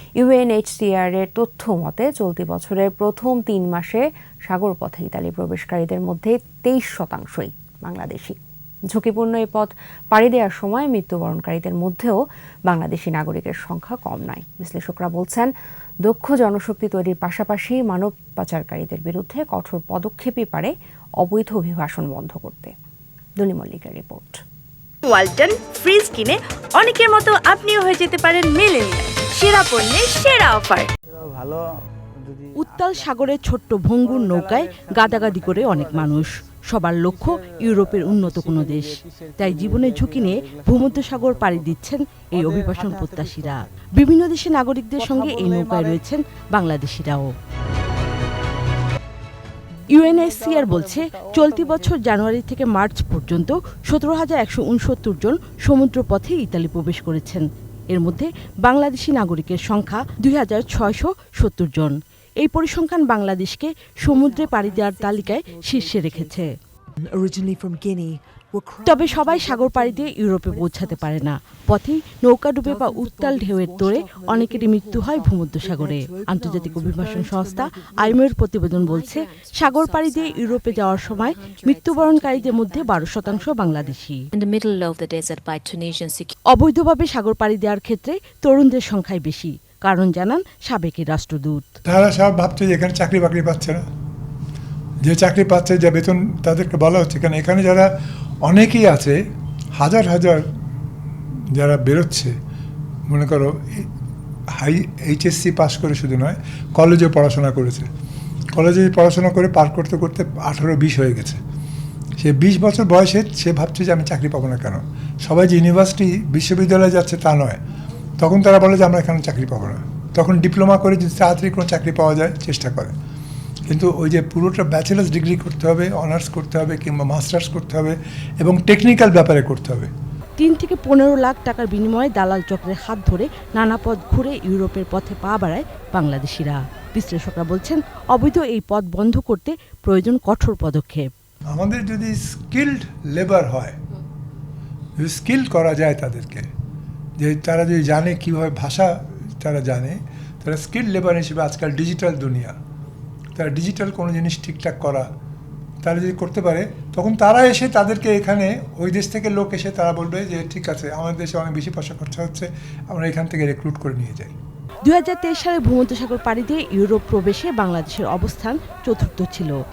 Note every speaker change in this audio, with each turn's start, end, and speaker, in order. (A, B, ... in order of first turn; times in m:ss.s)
0:00.2-0:08.4 A
0:08.9-0:15.5 A
0:16.0-0:22.7 A
0:23.4-0:24.4 A
0:25.0-0:30.9 B
0:31.2-0:31.6 C
0:32.2-0:33.1 C
0:32.6-0:47.3 D
0:34.0-0:36.4 C
0:37.1-0:41.8 C
0:42.3-0:43.6 C
0:45.0-0:46.0 C
0:49.9-0:51.9 C
0:49.9-1:06.5 D
1:04.0-1:06.3 E
1:07.0-1:11.2 E
1:08.8-1:24.2 D
1:12.6-1:18.3 E
1:18.7-1:26.3 F
1:26.5-1:31.6 D
1:31.9-1:33.8 G
1:35.0-1:37.9 G
1:38.5-1:39.2 G
1:39.8-1:40.4 G
1:41.5-1:42.4 G
1:43.1-1:43.9 G
1:44.5-1:47.9 G
1:48.6-1:51.4 G
1:52.2-1:57.6 G
1:58.2-2:02.9 G
2:03.7-2:09.9 G
2:10.4-2:21.1 D
2:21.5-2:23.8 G
2:25.0-2:26.5 G
2:27.2-2:32.6 G
2:33.4-2:35.1 G
2:35.8-2:44.3 G
2:44.8-2:49.5 D